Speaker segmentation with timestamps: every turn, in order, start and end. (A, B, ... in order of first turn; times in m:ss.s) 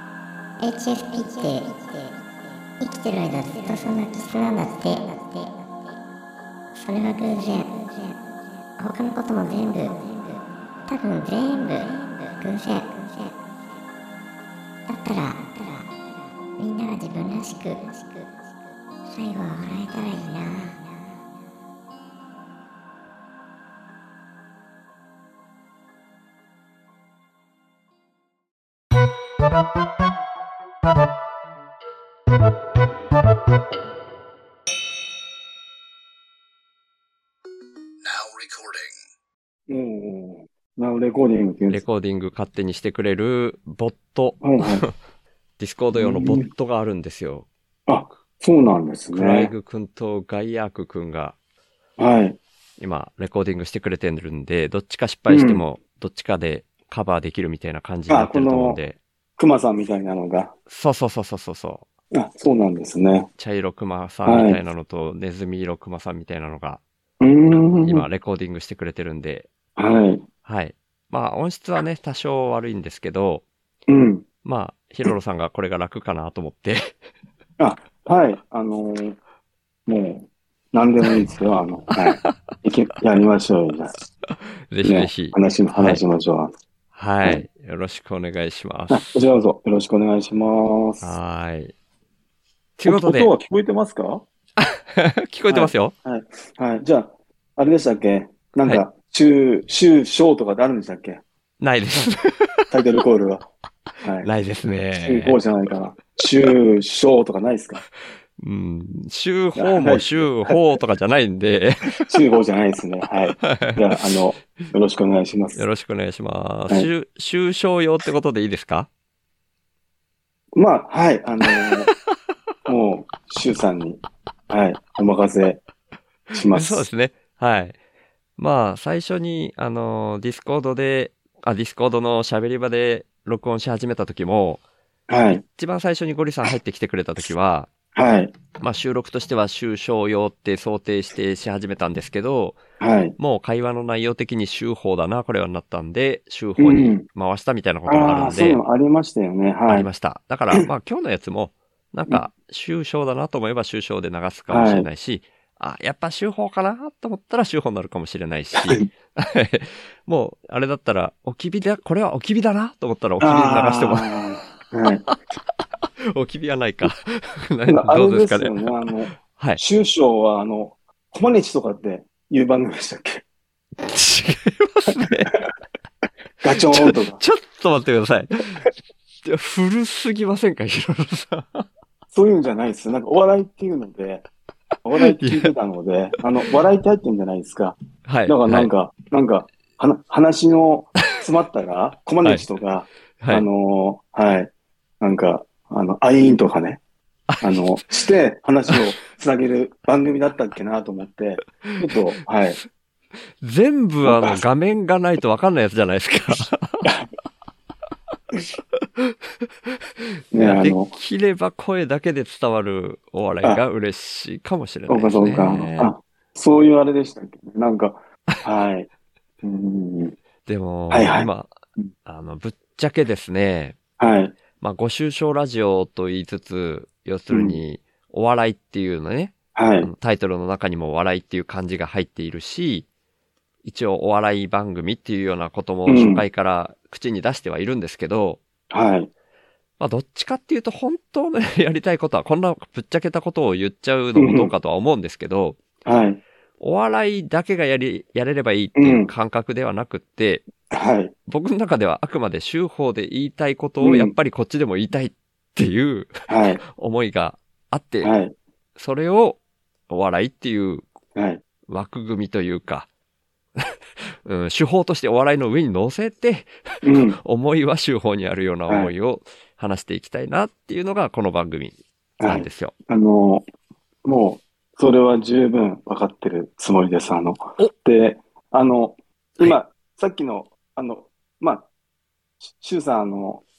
0:00.6-0:06.0 A
0:06.8-0:08.2 A
0:08.8-0:13.7 A
0:14.9-0:15.9 A
0:16.6-0:18.4 A
0:19.1-0:21.0 A
0:39.7-0:41.8 B
0:41.7-0:44.9 C
0:44.4-0:44.8 B
0:45.6-0:47.5 C
0:46.0-0:46.5 B
0:47.9-0:49.5 B
0:49.1-0:51.4 C
0:52.0-0:52.4 B
0:52.8-0:59.0 C
0:55.3-0:55.6 B
0:58.1-0:58.8 B
0:59.4-1:00.5 B
1:00.7-1:01.8 C
1:02.1-1:03.3 B
1:03.4-1:06.8 C
1:04.3-1:04.6 B
1:07.2-1:08.0 B
1:07.8-1:09.5 C
1:09.8-1:10.2 B
1:10.5-1:13.4 C
1:13.9-1:14.2 B
1:14.4-1:17.0 C
1:17.6-1:19.2 B
1:19.9-1:24.0 B
1:24.3-1:26.0 C
1:24.8-1:26.5 B
1:26.9-1:29.2 C
1:28.9-1:31.2 B
1:31.0-1:31.7 C
1:32.8-1:33.3 C
1:32.9-1:34.2 B
1:34.6-1:35.9 C
1:35.5-1:41.2 B
1:41.6-1:42.6 C
1:42.7-1:43.5 B
1:44.0-1:44.3 B
1:44.2-1:45.4 C
1:45.0-1:47.8 B
1:48.4-1:52.1 C
1:49.6-1:50.6 B
1:52.0-1:55.6 B
1:53.4-1:54.0 C
1:55.6-1:58.9 C
2:00.6-2:01.9 B
2:02.7-2:05.6 B
2:06.3-2:06.9 B
2:06.5-2:07.8 C
2:08.4-2:14.6 C
2:15.1-2:15.4 B
2:15.4-2:17.7 C
2:18.0-2:18.3 B
2:18.6-2:22.6 C
2:22.8-2:23.2 B
2:23.2-2:28.6 C
2:26.6-2:27.1 B
2:27.9-2:29.9 B
2:29.7-2:44.1 C
2:34.5-2:34.9 B
2:38.6-2:38.9 B
2:43.2-2:45.1 B
2:45.8-2:48.6 C
2:47.7-2:53.2 B
2:49.2-2:49.6 C
2:53.8-2:55.3 C
2:56.4-2:57.2 B
2:56.7-2:58.6 C
2:59.2-3:01.6 C
3:02.1-3:04.3 B
3:04.8-3:16.8 B
3:05.0-3:05.5 C
3:08.1-3:08.7 C
3:13.2-3:13.5 C
3:17.3-3:17.7 C
3:17.4-3:22.6 B
3:23.4-3:26.9 C
3:24.0-3:24.4 B
3:29.0-3:35.9 C
3:30.3-3:30.9 B
3:34.9-3:38.9 B
3:39.4-3:40.2 B
3:40.5-3:41.5 C
3:40.9-3:41.9 B
3:42.1-3:43.8 C
3:44.0-3:44.4 B
3:44.6-3:52.9 C
3:47.3-3:47.6 B
3:49.6-3:49.9 B
3:53.6-3:58.4 C
3:55.9-3:56.2 B
3:58.7-3:59.1 B
3:59.8-4:05.6 C
4:04.2-4:04.5 B
4:05.8-4:06.2 B
4:06.6-4:10.5 C
4:08.8-4:09.1 B
4:10.7-4:11.1 B
4:11.3-4:18.1 C
4:13.8-4:14.2 B
4:16.3-4:16.6 B
4:18.0-4:18.3 B
4:18.8-4:20.8 C
4:21.2-4:21.4 B
4:21.7-4:22.9 C
4:23.6-4:26.5 C
4:26.8-4:27.2 B
4:27.2-4:32.7 C
4:32.2-4:33.4 B
4:34.0-4:41.7 B
4:42.4-4:43.4 B